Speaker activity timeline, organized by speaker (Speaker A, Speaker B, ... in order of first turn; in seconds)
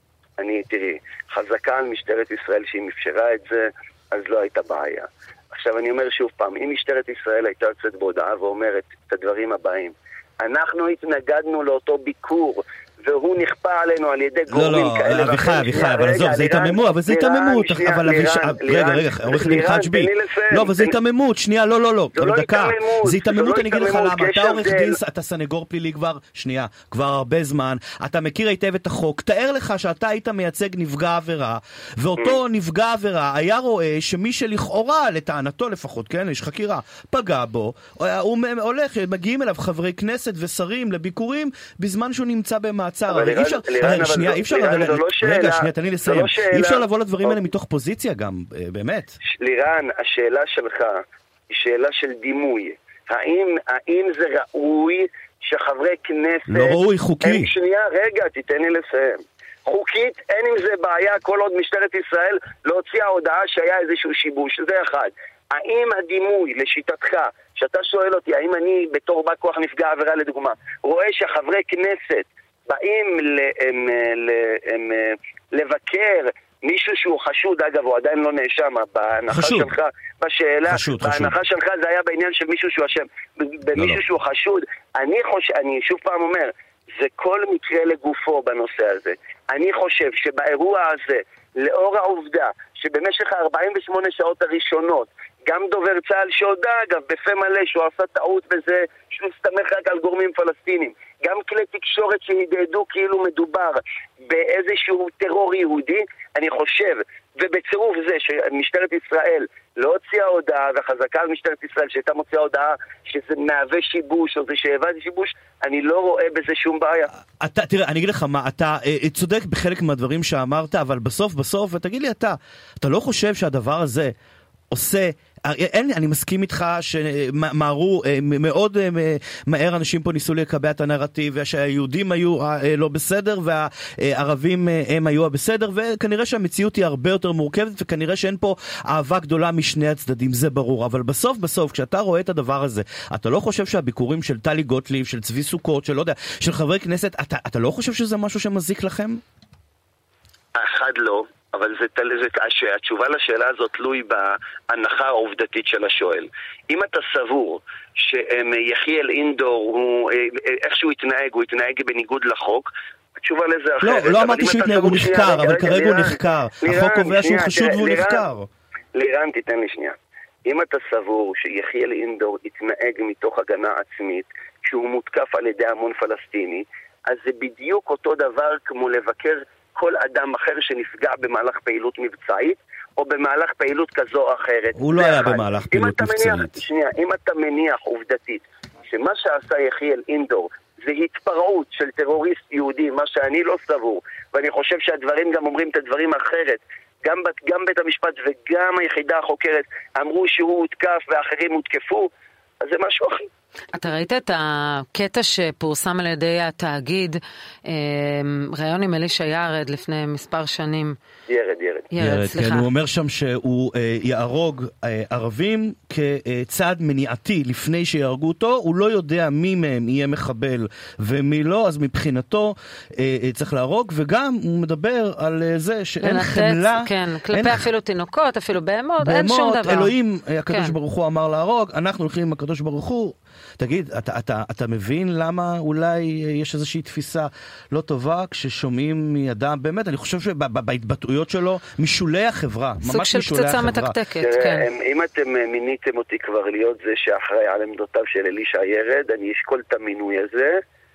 Speaker A: 0.4-21.0, 22.1-25.0, 43.1-47.5, 49.3-117.1, 150.6-168.3, 168.9-202.1, 202.6-203.3, 211.3-211.9, 244.2-250.6
Speaker B: 14.5-49.2, 56.5-57.5, 79.3-79.7, 80.7-81.3, 83.8-84.0, 117.4-124.1, 124.7-149.2, 163.8-168.5, 184.8-186.6, 212.0-227.7, 229.0-244.0
Speaker C: 203.7-211.0, 211.9-212.7, 226.0-229.9, 230.5-230.8, 242.8-244.7